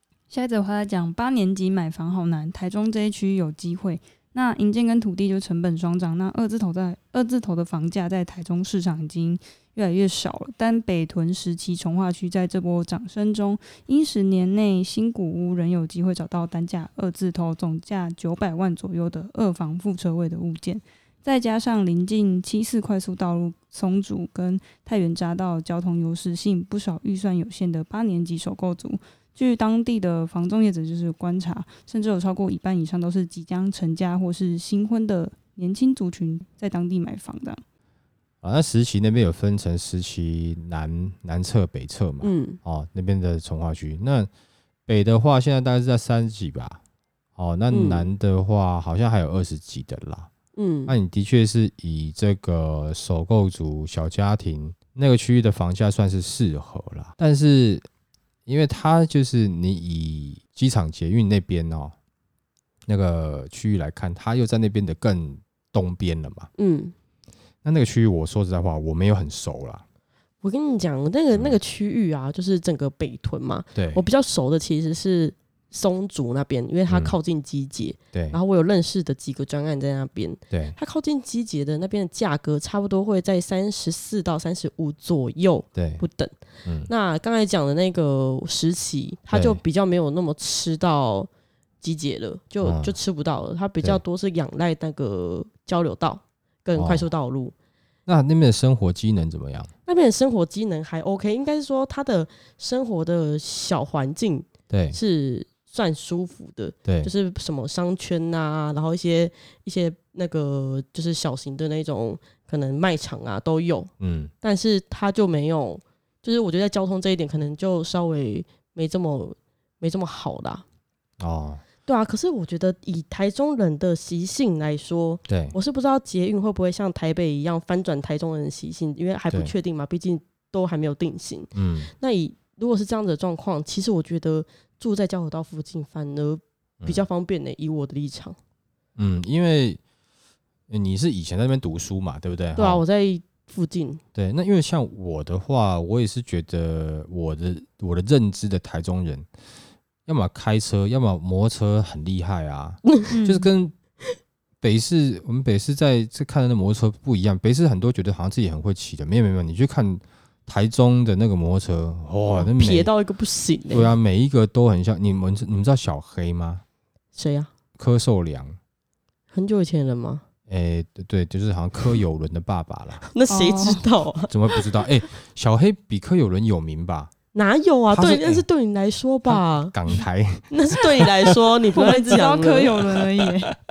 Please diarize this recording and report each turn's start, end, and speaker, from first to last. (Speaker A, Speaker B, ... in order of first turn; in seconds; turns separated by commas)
Speaker A: 0.3-37.6, Speaker B: 38.4-44.3, Speaker C: 42.2-42.6, Speaker B: 44.9-46.8, Speaker B: 47.4-50.3, Speaker C: 47.7-48.1, Speaker C: 50.6-50.9, Speaker B: 50.9-57.9, Speaker B: 58.5-62.0, Speaker B: 62.9-66.5, Speaker C: 66.6-66.9, Speaker B: 67.6-69.8, Speaker C: 70.4-86.3, Speaker B: 73.8-74.0, Speaker B: 76.9-77.1, Speaker B: 78.1-78.4, Speaker B: 80.5-80.8, Speaker B: 85.8-86.0, Speaker B: 86.7-86.9, Speaker C: 86.9-91.3, Speaker B: 89.3-89.6, Speaker C: 91.8-97.5, Speaker B: 92.6-93.0, Speaker B: 96.8-97.1, Speaker B: 98.1-99.7, Speaker C: 99.9-113.9, Speaker B: 104.7-105.0, Speaker B: 106.8-107.1, Speaker B: 114.0-114.3, Speaker C: 114.4-120.7, Speaker B: 121.2-121.6, Speaker C: 121.8-138.4, Speaker B: 125.3-125.6, Speaker B: 131.6-131.9, Speaker B: 139.0-139.8, Speaker B: 140.7-142.8, Speaker C: 142.6-144.0, Speaker B: 144.2-149.3, Speaker B: 150.1-153.8, Speaker A: 153.1-153.5, Speaker B: 154.6-162.9, Speaker C: 162.3-163.9, Speaker B: 163.7-166.6, Speaker C: 167.2-167.5, Speaker B: 167.8-168.6, Speaker C: 169.3-170.2, Speaker B: 170.5-173.0, Speaker C: 173.1-174.3, Speaker A: 173.3-173.8, Speaker B: 174.3-177.1, Speaker C: 177.3-179.8, Speaker B: 177.9-178.4, Speaker B: 179.3-181.3, Speaker C: 180.5-182.8, Speaker A: 181.7-183.6